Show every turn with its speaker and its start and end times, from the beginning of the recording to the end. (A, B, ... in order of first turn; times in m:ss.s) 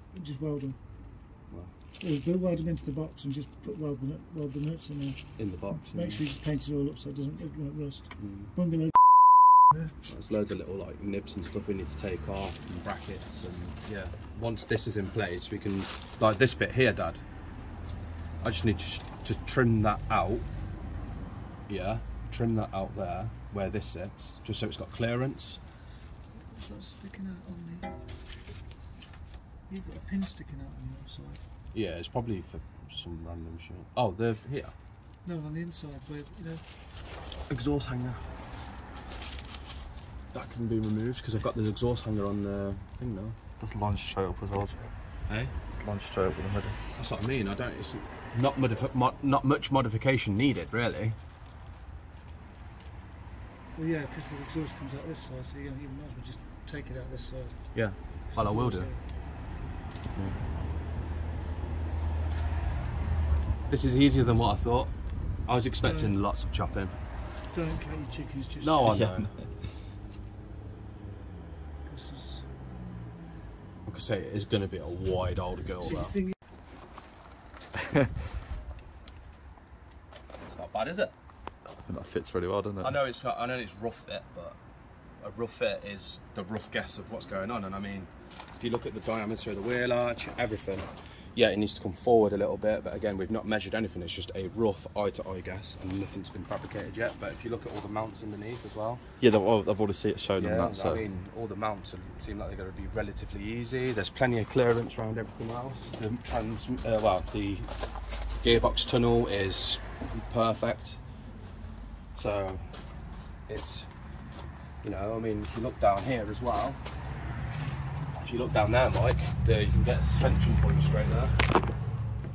0:00.1-0:00.8 A
0:02.0-0:09.9 A
0:05.4-0:06.2 B
0:08.2-0:08.5 B
0:10.0-0:17.2 B
0:18.4-0:20.5 B
0:21.7-0:25.6 B
0:26.5-0:28.0 A
0:29.7-0:31.4 A
0:31.7-0:34.7 B
0:35.2-0:36.6 A
0:37.5-0:38.3 B
0:40.3-0:43.4 B
0:43.6-0:44.8 C
0:45.3-0:45.5 B
0:45.7-0:46.8 C
0:46.9-0:51.2 B
0:53.8-0:59.0 A
0:57.7-0:58.9 B
1:03.7-1:04.9 B
1:05.5-1:07.0 B
1:05.8-1:06.2 A
1:07.5-1:09.0 A
1:08.6-1:09.3 B
1:08.9-1:09.3 C
1:11.8-1:12.5 A
1:13.9-1:16.2 B
1:15.9-1:16.3 A
1:17.8-1:18.1 C
1:20.5-1:21.1 B
1:21.8-1:23.0 C
1:22.8-1:24.6 B
1:25.2-1:39.0 B
1:39.2-1:41.0 C
1:40.4-1:47.7 B
1:48.4-1:51.0 B
1:52.2-1:52.7 B
1:53.5-1:53.9 B
1:54.8-1:56.8 B
1:58.2-2:01.4 B